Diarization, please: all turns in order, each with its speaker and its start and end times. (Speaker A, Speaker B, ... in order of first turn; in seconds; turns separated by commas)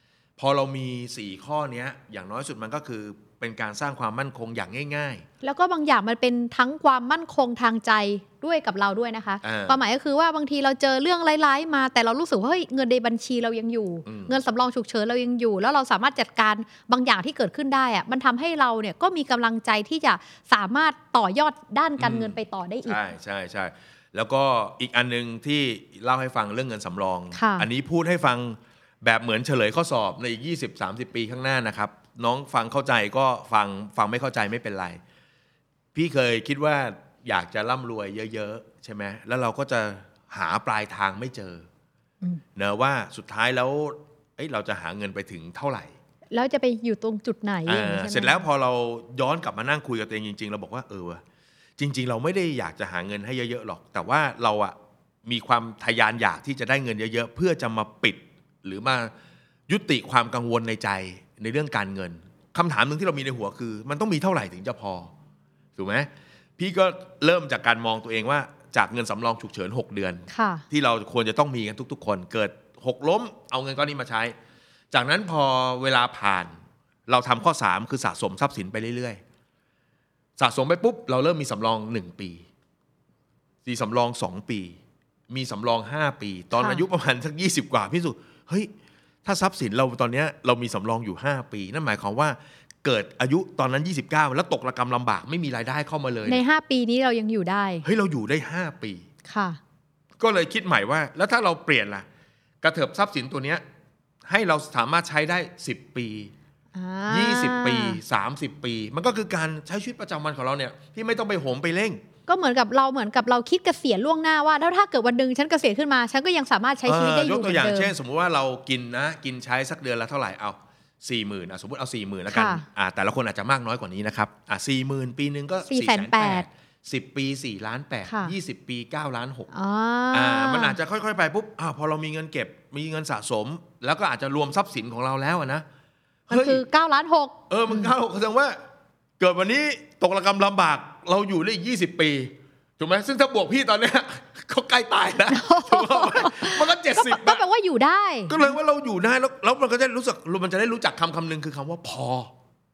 Speaker A: 0.4-5.2, Speaker B: 5.4-23.0, Speaker A: 9.4-9.8, Speaker A: 14.1-14.3, Speaker A: 22.0-35.0, Speaker B: 27.3-27.7, Speaker A: 35.9-41.7, Speaker A: 42.6-45.9, Speaker B: 46.3-48.5, Speaker A: 47.7-51.2, Speaker A: 51.8-59.1, Speaker A: 59.7-65.1, Speaker A: 65.8-74.3, Speaker B: 70.3-70.6, Speaker A: 74.9-79.2, Speaker A: 80.4-82.5, Speaker A: 83.7-84.8, Speaker A: 85.3-88.7, Speaker B: 86.5-86.8, Speaker A: 89.2-96.4, Speaker B: 96.3-97.8, Speaker A: 97.8-99.1, Speaker B: 99.3-99.6, Speaker A: 100.2-102.1, Speaker A: 102.6-103.6, Speaker A: 104.3-106.3, Speaker B: 106.8-108.0, Speaker A: 107.1-112.0, Speaker B: 112.3-117.9, Speaker A: 116.9-129.5, Speaker B: 122.3-122.7, Speaker B: 125.7-126.5, Speaker B: 128.1-128.3, Speaker B: 129.5-130.8, Speaker A: 130.1-135.7, Speaker A: 136.3-136.6, Speaker B: 136.3-137.9, Speaker A: 137.5-138.6, Speaker A: 139.2-147.4, Speaker B: 145.3-148.5, Speaker A: 148.3-152.3